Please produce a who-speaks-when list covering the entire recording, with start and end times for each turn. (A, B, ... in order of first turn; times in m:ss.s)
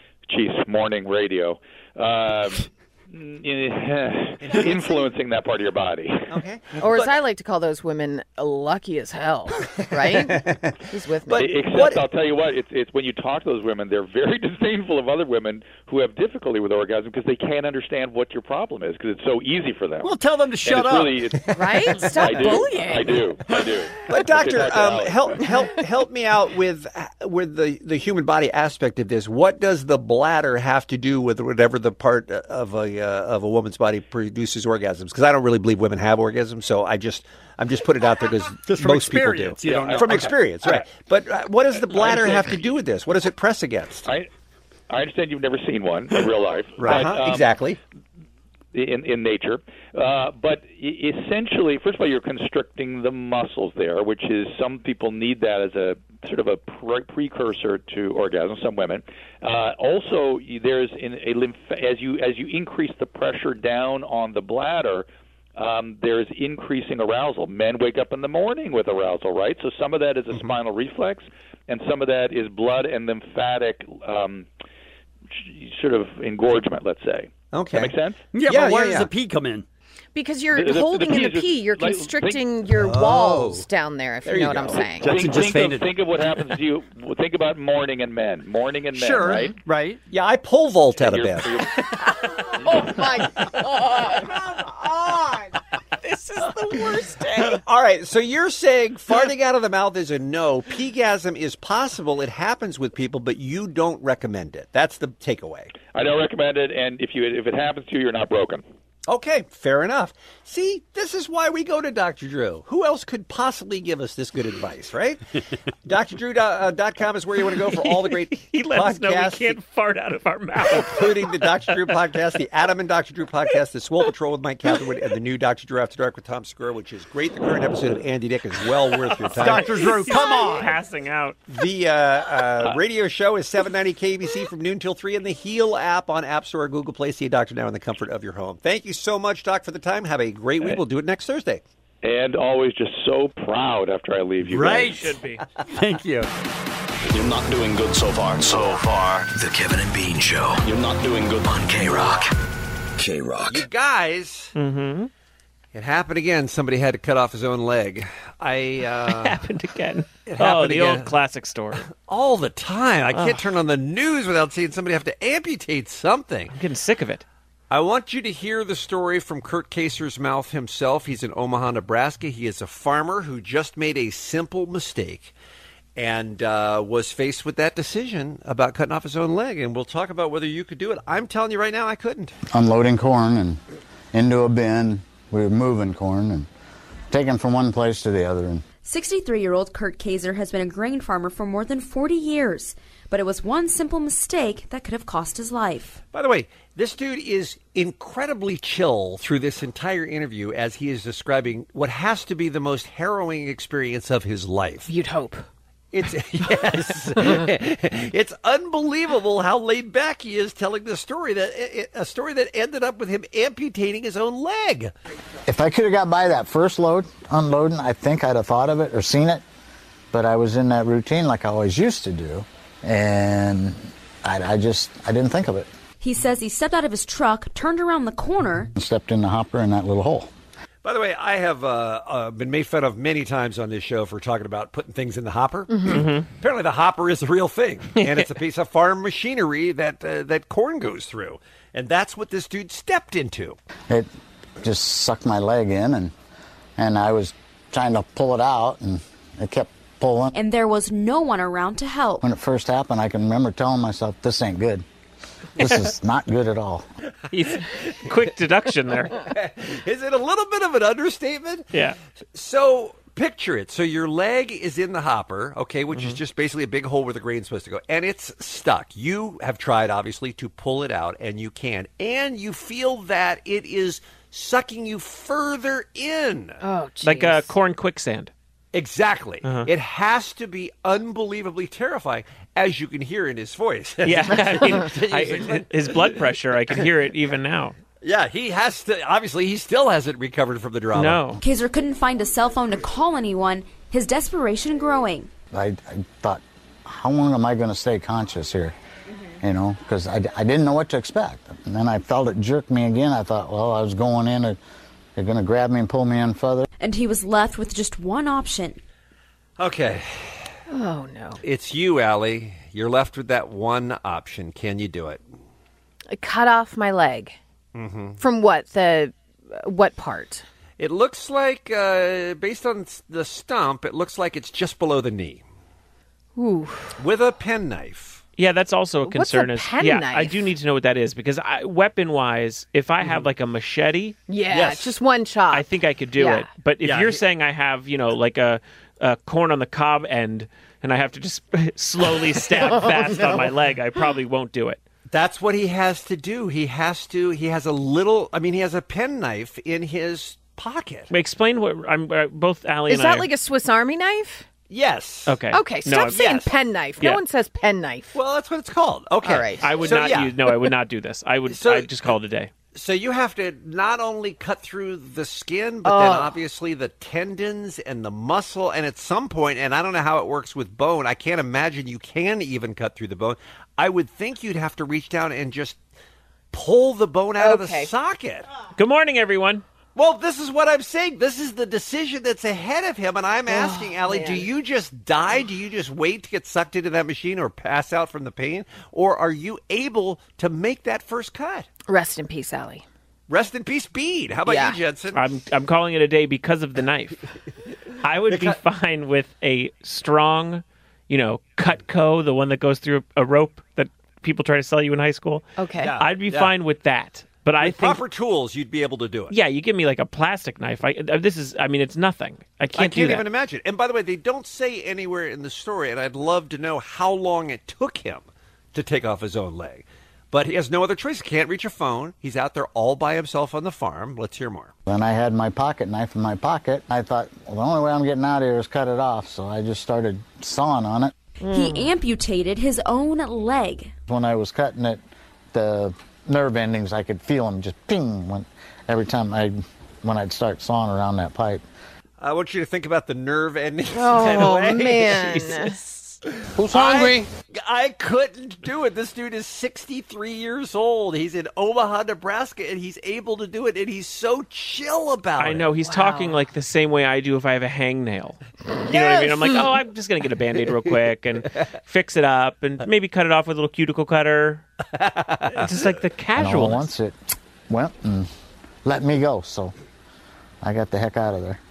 0:00.3-0:06.3 A
0:04.4-0:05.0 B
0:06.3-0:07.1 B
0:06.8-0:11.5 C
0:10.0-0:12.0 B
0:11.4-0:25.4 A
0:20.0-0:21.3 D
0:21.5-0:23.2 C
0:22.3-0:22.6 B
0:24.1-0:44.1 B
0:38.7-0:40.8 D
0:39.6-0:40.2 A
0:44.9-0:47.5 A
0:46.8-0:47.8 B
0:46.8-0:47.0 D
0:48.7-1:14.5 A
1:15.3-1:18.2 A
1:17.5-1:19.1 B
1:18.3-1:19.6 D
1:20.1-1:25.2 C
1:20.5-1:22.5 A
1:22.8-1:23.6 D
1:24.2-1:24.9 B
1:25.0-1:25.9 D
1:25.1-1:29.6 A
1:28.9-1:30.0 D
1:30.1-1:31.6 B
1:31.0-1:31.7 A
1:32.7-1:34.2 C
1:36.1-1:37.2 E
1:37.5-1:45.7 B
1:45.9-1:48.6 A
1:49.1-1:55.2 B
1:55.8-1:59.6 B
1:57.6-2:01.8 E
2:00.7-2:09.9 B
2:09.3-2:10.7 D
2:09.4-2:11.4 E
2:11.5-2:21.6 B
2:22.0-2:25.0 A
2:24.4-2:25.1 D
2:24.6-2:25.4 E
2:25.7-2:26.3 D
2:27.1-2:32.3 F
2:33.0-2:33.6 F
2:33.5-2:34.5 B
2:34.5-2:35.1 E
2:35.7-2:39.4 B
2:39.0-2:41.8 E
2:40.2-2:41.2 B
2:41.8-2:46.6 B
2:43.1-2:43.5 E
2:46.5-2:47.2 E
2:47.7-2:55.3 B
2:56.0-3:02.4 B
3:02.5-3:03.6 G
3:04.1-3:06.5 G
3:07.1-3:08.6 G
3:08.8-3:16.0 H
3:16.1-3:24.9 B
3:24.9-3:25.4 C
3:25.9-3:34.9 B
3:35.5-3:39.4 G
3:40.1-3:45.7 G
3:46.0-3:48.7 H
3:48.7-3:50.3 G
3:50.8-4:03.6 B
3:55.7-3:56.0 C
3:55.9-3:56.3 E
4:04.6-4:06.1 G
4:06.8-4:10.3 G
4:10.3-4:12.2 H
4:12.2-4:14.8 G
4:15.6-4:16.8 G
4:17.3-4:19.1 E
4:19.3-4:21.7 B
4:21.7-4:22.0 E
4:22.3-4:36.6 B
4:25.9-4:26.2 E
4:36.6-4:37.5 C
4:37.0-4:38.3 E
4:38.7-4:46.1 B
4:39.4-4:39.7 E
4:44.0-4:47.7 E
4:48.0-4:51.2 B
4:50.9-4:51.4 E
4:51.4-4:55.3 H
4:55.5-4:58.7 G
4:59.4-5:04.6 G
5:05.2-5:06.7 G
5:06.8-5:08.8 H
5:09.6-5:10.5 B
5:10.7-5:11.4 C
5:11.4-5:15.2 B
5:16.1-5:17.4 C
5:17.7-5:18.2 B
5:18.2-5:20.4 C
5:20.8-5:25.4 B
5:26.4-5:26.9 C
5:27.0-5:28.2 B
5:28.4-5:34.2 E
5:29.0-5:30.4 C
5:34.3-5:35.6 C
5:34.5-5:34.9 B
5:35.5-5:44.8 E
5:36.2-5:36.5 C
5:36.8-5:37.2 B
5:42.8-5:43.4 C
5:45.1-5:51.1 B
5:51.1-5:53.3 E
5:52.9-5:54.4 C
5:54.7-5:55.4 B
5:55.2-5:56.4 E
5:55.5-5:58.1 C
5:56.0-5:56.5 B
5:58.1-6:00.4 B
5:59.2-5:59.6 C
5:59.6-6:02.5 E
6:01.5-6:02.1 B
6:02.7-6:15.8 B
6:05.8-6:06.3 C
6:16.5-6:18.5 B
6:17.4-6:17.9 C
6:18.8-6:19.6 E
6:20.0-6:31.7 B
6:23.5-6:24.5 C
6:31.9-6:32.8 C
6:33.3-6:35.2 B
6:34.4-6:34.8 C
6:35.1-6:37.2 E
6:38.0-6:45.4 E
6:38.3-6:38.6 B
6:45.6-6:45.9 C
6:45.8-6:46.5 B
6:46.0-6:48.0 E
6:47.6-6:49.3 B
6:49.3-6:53.3 E
6:52.7-7:04.7 B
7:04.9-7:11.1 G
7:11.4-7:13.9 H
7:11.5-7:11.8 C
7:14.1-7:15.0 G
7:15.5-7:21.6 G
7:22.2-7:25.5 B
7:23.9-7:25.7 C
7:25.5-7:26.1 E
7:26.6-7:35.7 B
7:35.4-7:44.6 E
7:35.8-7:36.4 C
7:38.9-7:39.4 B
7:45.0-7:45.7 B
7:45.5-7:46.9 E
7:46.4-7:47.2 G
7:47.7-7:48.3 G
7:48.8-7:49.7 G
7:50.6-7:51.6 G